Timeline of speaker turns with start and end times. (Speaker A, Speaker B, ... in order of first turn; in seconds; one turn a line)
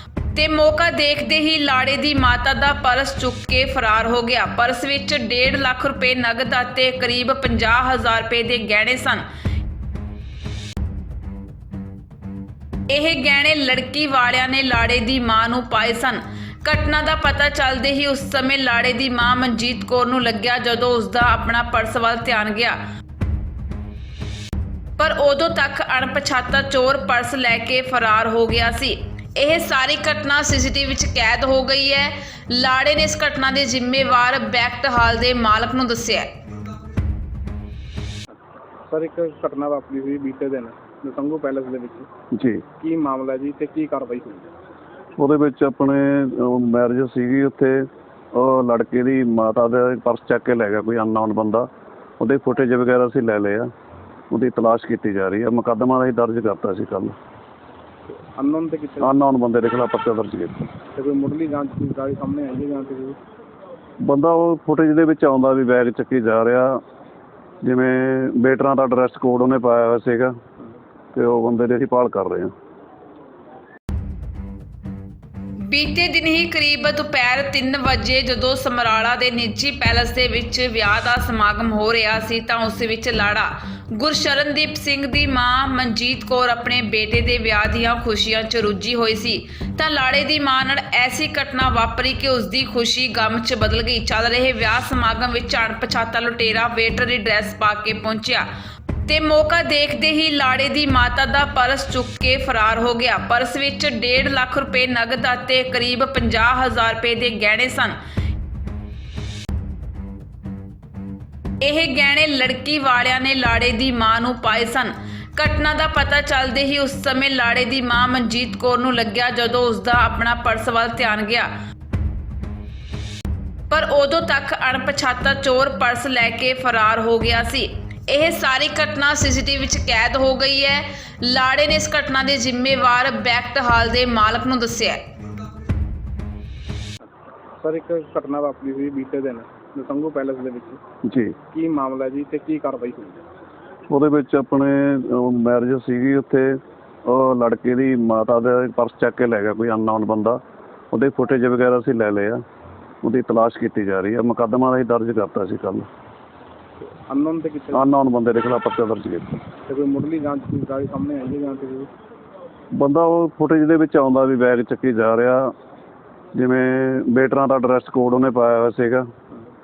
Speaker A: 0.3-9.2
Speaker A: 12.9-22.8
Speaker A: 25.0-36.4
Speaker B: 38.9-42.1
Speaker C: 42.3-42.6
Speaker B: 42.8-44.5
Speaker C: 45.2-51.7
Speaker C: 52.2-53.7
Speaker C: 54.3-57.2
Speaker B: 58.1-59.1
Speaker C: 59.0-60.7
Speaker B: 61.0-63.2
Speaker C: 64.0-66.8
Speaker C: 67.6-70.4
Speaker C: 71.1-72.5
Speaker A: 75.6-98.5
Speaker A: 99.1-108.0
Speaker A: 111.6-121.5
Speaker A: 123.7-135.1
Speaker B: 137.6-140.8
Speaker C: 141.0-141.4
Speaker B: 141.5-143.2
Speaker C: 143.9-150.4
Speaker C: 150.9-152.4
Speaker C: 153.0-155.9
Speaker B: 156.8-157.8
Speaker C: 157.7-159.4
Speaker B: 159.7-161.9
Speaker C: 162.7-165.5
Speaker C: 166.3-169.1